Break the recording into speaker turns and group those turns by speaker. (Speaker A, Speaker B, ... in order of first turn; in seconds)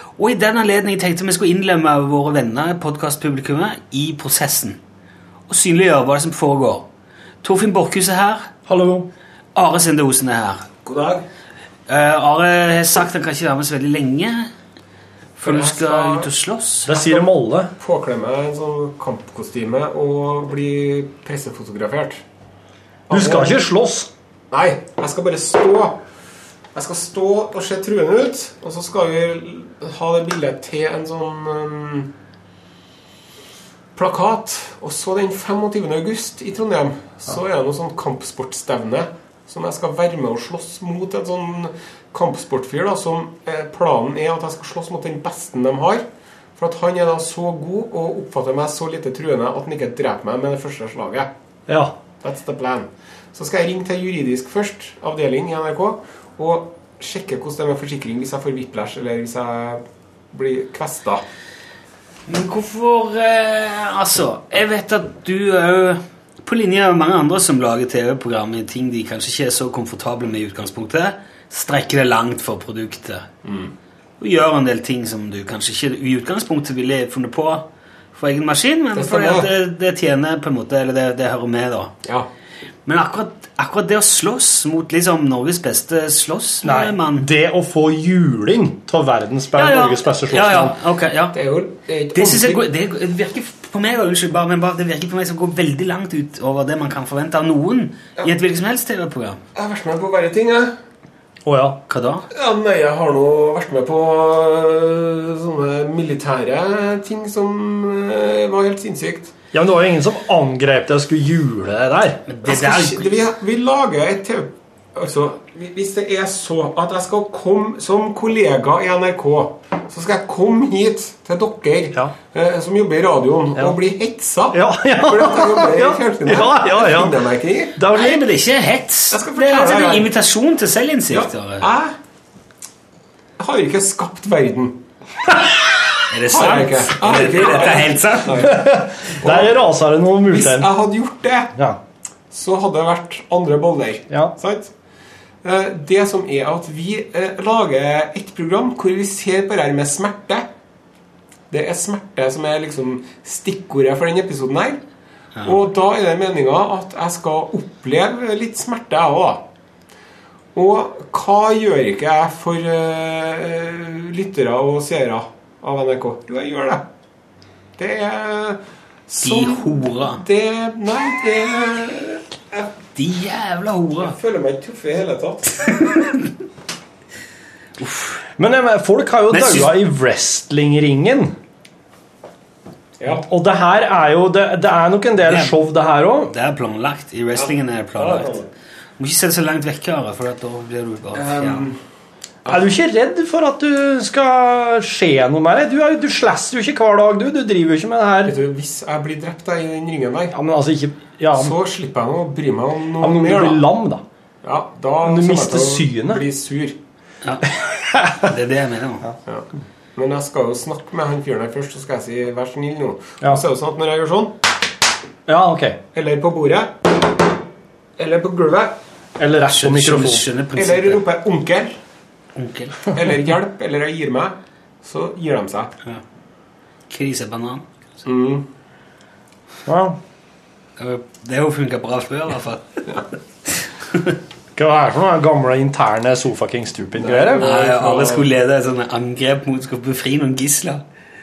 Speaker A: 0.2-4.8, 5.5-6.9, 7.4-8.5, 9.6-10.7, 11.9-14.5, 15.4-16.9, 62.3-73.3, 74.2-82.0, 82.9-87.3, 89.6-91.4, 92.1-99.4, 101.9-102.3, 112.3-113.1, 127.9-131.7, 136.1-138.5, 169.2-170.2, 172.9-174.2, 175.7-176.3, 177.8-178.2, 179.3-179.7, 185.3-185.5, 186.3-188.4, 189.0-191.7, 207.2-207.6, 208.1-209.1, 219.5-221.0, 222.4-222.9, 226.9-227.7, 230.8-232.9, 233.5-234.2, 237.4-240.8
Speaker B: 8.7-9.1, 16.9-17.7, 23.1-24.1, 51.7-52.0, 86.6-90.8, 101.5-101.8, 109.5-112.2, 124.5-128.2, 138.3-140.7, 178.4-181.3, 183.1-186.3, 192.5-198.3, 200.3-201.6, 203.0-204.1, 205.0-206.2, 207.6-208.2, 215.3-215.8, 219.2-220.2, 229.7-230.0, 234.6-237.5
Speaker C: 10.8-11.2, 15.4-16.3, 16.9-17.3, 17.8-22.2, 23.1-23.6, 24.5-26.0, 26.8-32.1, 34.0-46.0, 46.6-51.3, 52.2-61.2, 73.5-73.7, 79.0-79.5, 91.3-92.6, 99.5-100.8, 102.3-109.3, 112.5-127.8, 129.1-130.1, 131.1-131.9, 133.4-134.8, 136.3-139.6, 140.3-141.5, 142.3-144.7, 145.4-150.5, 151.5-154.8, 155.4-159.4, 160.6-166.9, 167.8-172.7, 174.0-176.1, 188.0-188.5, 191.2-191.8, 192.4-192.7, 198.3-200.3, 201.3-203.6, 204.4-206.8, 209.3-214.4, 215.9-217.0, 218.0-218.8, 220.6-221.8, 222.9-225.7, 228.1-228.5, 237.0-238.3